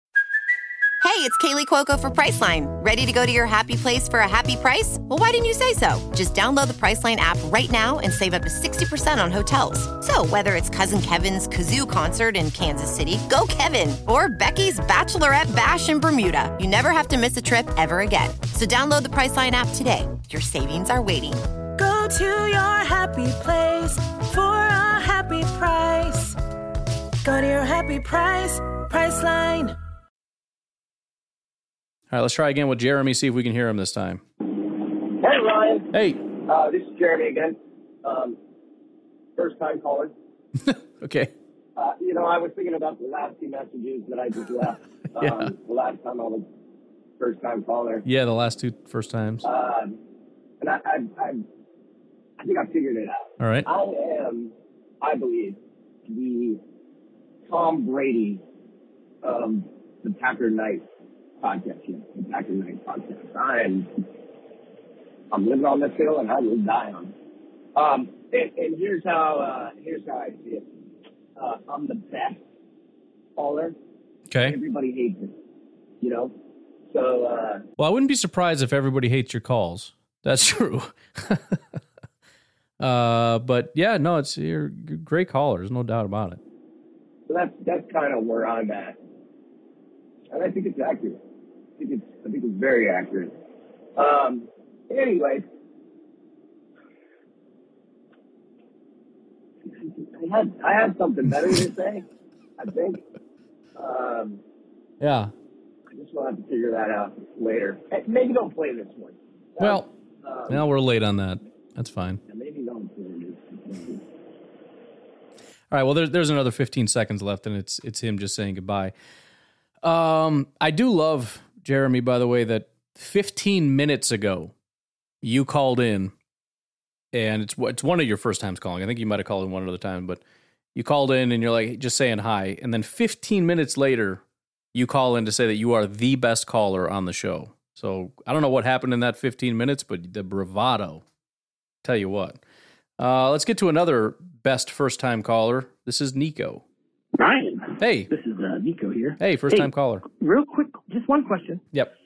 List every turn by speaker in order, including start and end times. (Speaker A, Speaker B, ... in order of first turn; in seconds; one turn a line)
Speaker A: 1.0-21.4
Speaker B: 21.8-26.4
Speaker B: 27.2-29.8
Speaker C: 32.1-34.2
Speaker D: 34.8-38.4
Speaker C: 35.9-36.2
Speaker D: 39.4-40.1
Speaker C: 40.6-41.3
Speaker D: 41.8-46.5
Speaker D: 47.2-48.0
Speaker C: 48.0-49.5
Speaker D: 49.4-50.0
Speaker D: 50.6-51.4
Speaker D: 52.4-56.6
Speaker C: 53.4-53.7
Speaker D: 57.5-58.4
Speaker D: 59.2-60.9
Speaker D: 61.4-63.9
Speaker D: 65.3-67.1
Speaker D: 67.7-70.7
Speaker D: 71.4-72.4
Speaker D: 73.4-73.8
Speaker C: 74.3-74.6
Speaker D: 74.4-75.3
Speaker D: 76.0-76.3
Speaker D: 76.9-77.6
Speaker C: 77.8-81.6
Speaker C: 82.8-86.4
Speaker D: 87.3-89.0
Speaker D: 90.3-91.2
Speaker D: 91.8-93.3
Speaker D: 94.0-95.4
Speaker D: 99.7-102.0
Speaker D: 102.6-103.0
Speaker D: 103.7-104.4
Speaker C: 105.0-105.3
Speaker D: 105.9-110.6
Speaker C: 109.6-109.9
Speaker C: 110.5-112.2
Speaker D: 112.3-114.0
Speaker C: 115.7-118.9
Speaker C: 119.8-124.5
Speaker C: 125.2-126.1
Speaker C: 127.1-130.2
Speaker C: 130.7-134.2
Speaker C: 134.7-141.0
Speaker C: 141.8-142.4
Speaker C: 143.0-146.6
Speaker E: 147.2-151.6
Speaker C: 147.8-148.1
Speaker C: 149.2-150.0